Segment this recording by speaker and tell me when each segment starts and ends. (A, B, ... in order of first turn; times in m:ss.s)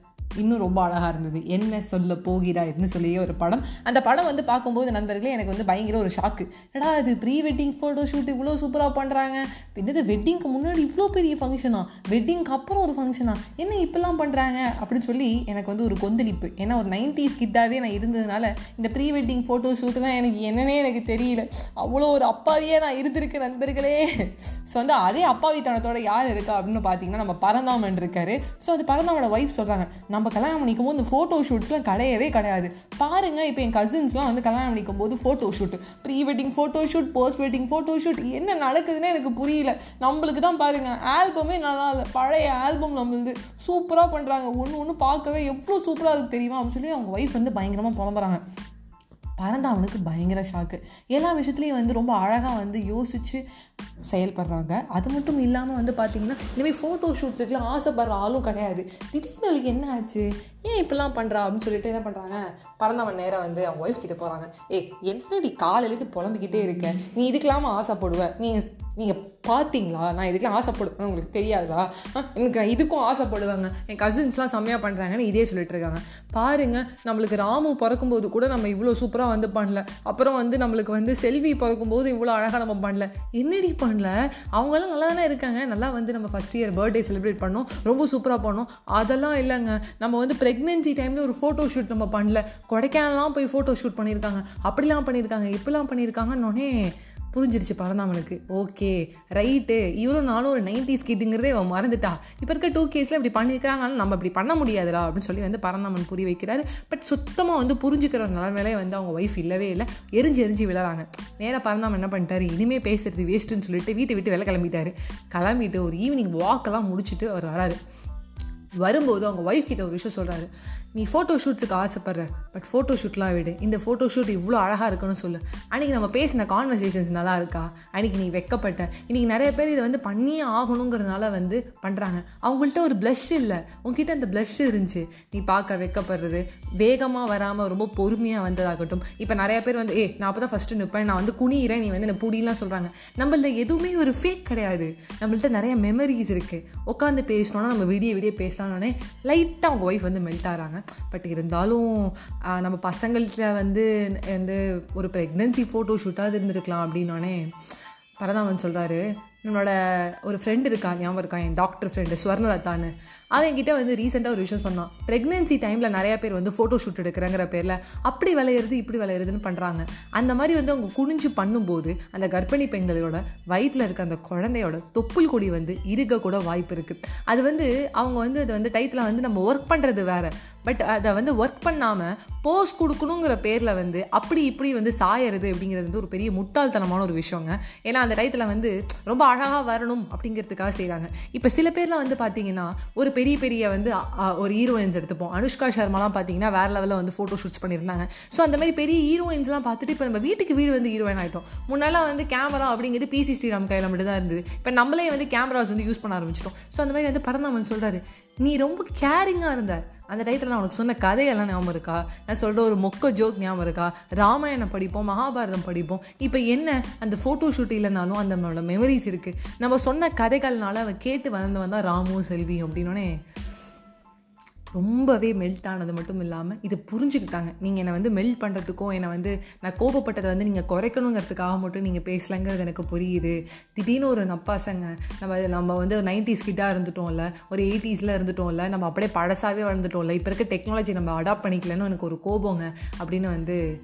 0:00.4-0:48.4 A
0:49.4-0:53.4 A
0:54.1-1:57.8 A
1:58.8-2:37.5 A
2:38.2-3:43.1 A
3:44.7-4:03.6 A